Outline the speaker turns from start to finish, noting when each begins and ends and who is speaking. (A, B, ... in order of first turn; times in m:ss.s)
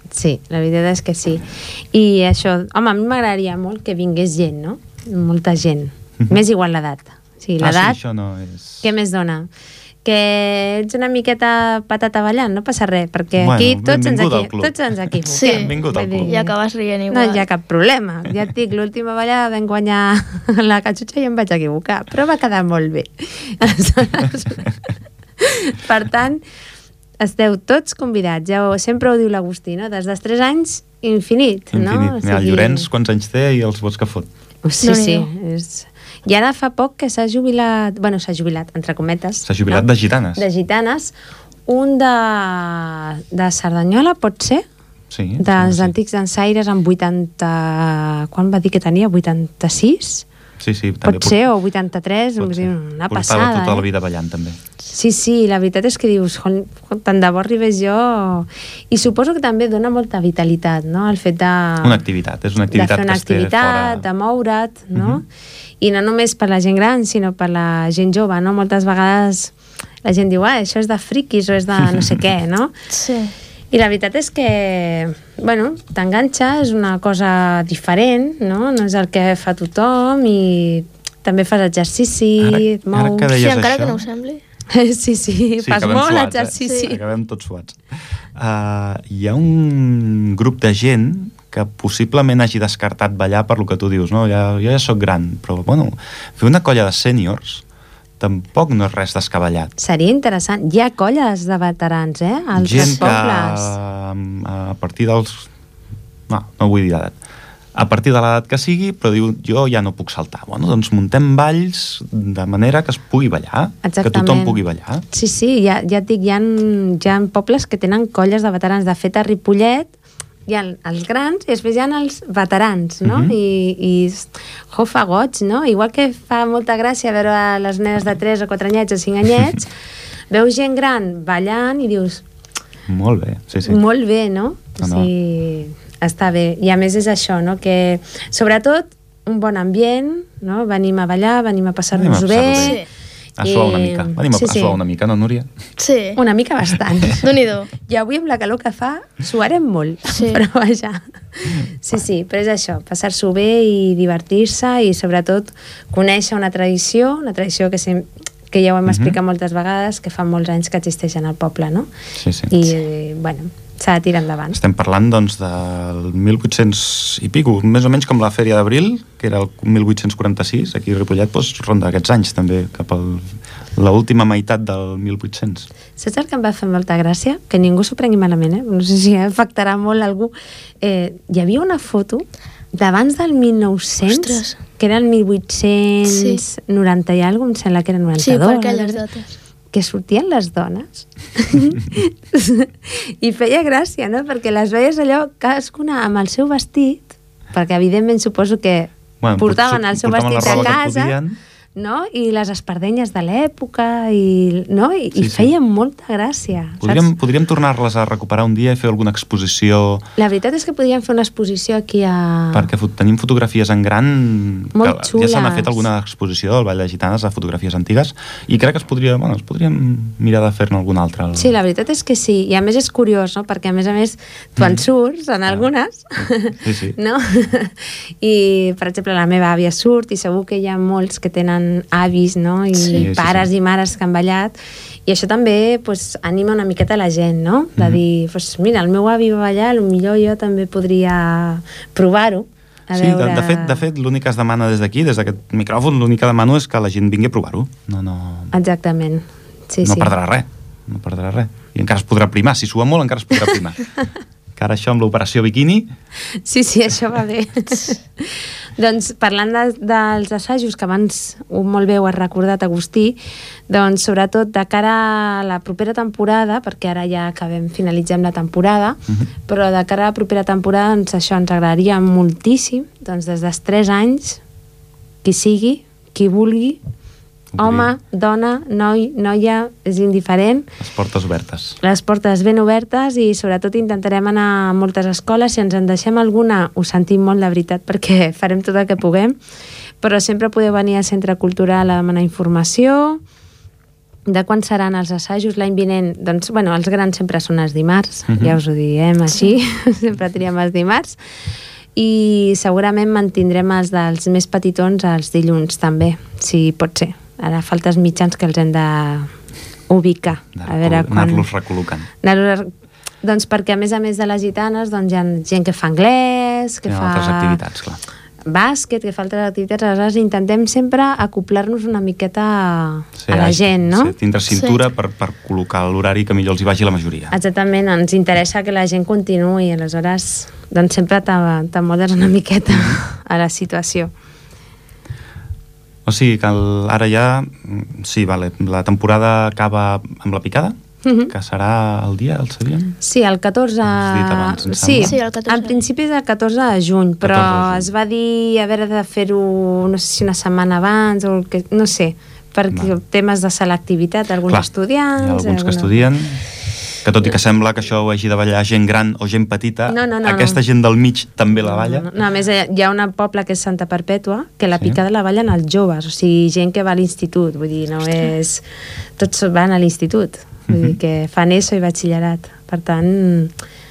0:00.1-0:08.0 A
0:07.6-0:08.9 B
0:08.8-0:09.5 A
0:10.0-0:16.5 A
0:13.4-0:16.4 B
0:15.3-0:17.4 C
0:17.1-0:24.7 A
0:25.4-0:26.4 A
0:27.2-0:32.9 A
0:31.7-0:34.3 B
0:34.6-0:41.1 A
0:34.8-0:35.3 C
0:39.4-0:40.4 B
0:41.7-0:44.6 A
0:45.1-0:45.9 B
0:45.4-0:50.2 A
0:50.6-0:51.4 B
0:51.0-0:53.8 A
0:52.4-0:54.6 B
0:54.9-1:02.0 A
1:01.8-1:04.0 B
1:02.7-1:05.2 A
1:04.9-1:05.2 B
1:05.8-1:12.7 A
1:12.9-1:13.3 C
1:13.7-1:23.3 A
1:22.4-1:24.0 B
1:23.3-1:24.4 C
1:24.7-1:27.0 A
1:25.6-1:27.8 B
1:26.6-1:26.9 C
1:28.3-1:37.6 B
1:38.2-1:39.7 B
1:39.8-1:43.7 A
1:42.5-1:45.5 B
1:46.3-1:47.2 B
1:47.7-1:55.0 B
1:53.8-1:59.9 A
2:00.5-2:09.7 A
2:03.0-2:03.3 B
2:10.3-2:12.2 A
2:12.9-2:13.8 B
2:13.7-2:22.8 A
2:14.8-2:15.1 B
2:21.9-2:22.8 B
2:22.6-2:22.8 C
2:23.4-2:25.5 B
2:23.4-2:24.8 A
2:25.8-2:26.2 C
2:26.2-2:27.2 A
2:27.1-2:27.7 C
2:27.8-2:41.9 A
2:30.1-2:30.4 C
2:38.8-2:39.2 B
2:42.2-2:42.7 B
2:42.5-2:44.6 A
2:44.5-2:55.7 B
2:56.0-3:09.0 A
3:04.1-3:04.6 C
3:06.0-3:06.4 C
3:08.2-3:09.3 C
3:09.7-3:21.2 A
3:19.2-3:21.4 B
3:21.8-3:27.1 A
3:25.2-3:25.5 B
3:26.8-3:30.0 B
3:30.2-3:32.7 A
3:32.5-3:41.6 B
3:34.7-3:35.8 A
3:41.3-3:54.5 A
3:44.6-3:44.8 B
3:46.6-3:47.0 B
3:52.8-3:53.1 C
3:52.9-3:53.5 B
3:55.0-4:03.8 A
3:57.8-3:58.0 B
4:02.9-4:08.5 B
4:08.5-4:10.1 A
4:09.8-4:13.8 B
4:14.6-4:15.9 B
4:16.4-4:23.2 A
4:23.7-4:34.4 A
4:35.2-4:36.8 A
4:37.5-4:37.9 B
4:37.6-4:40.7 A
4:40.8-4:41.8 B
4:41.8-4:49.4 A
4:50.0-4:53.2 A
4:54.2-5:01.2 A
4:58.3-4:58.6 B
5:01.9-5:09.3 A
5:09.9-5:11.5 A
5:10.5-5:12.1 B
5:12.2-5:12.7 A
5:13.2-5:17.6 A
5:16.8-5:18.0 B
5:18.5-5:24.1 A
5:23.2-5:27.3 B
5:24.5-5:24.8 C
5:27.3-5:34.1 A
5:32.7-5:33.0 B
5:36.0-5:40.8 B
5:41.0-5:41.3 A
5:41.3-5:43.0 B
5:43.0-5:56.1 A
5:43.8-5:45.1 B
5:45.0-5:45.8 C
5:47.2-5:47.9 B
5:54.5-5:56.4 B
5:57.0-6:02.1 B
5:59.9-6:00.6 A
6:01.6-6:08.6 A
6:09.2-6:13.5 A
6:10.7-6:11.0 B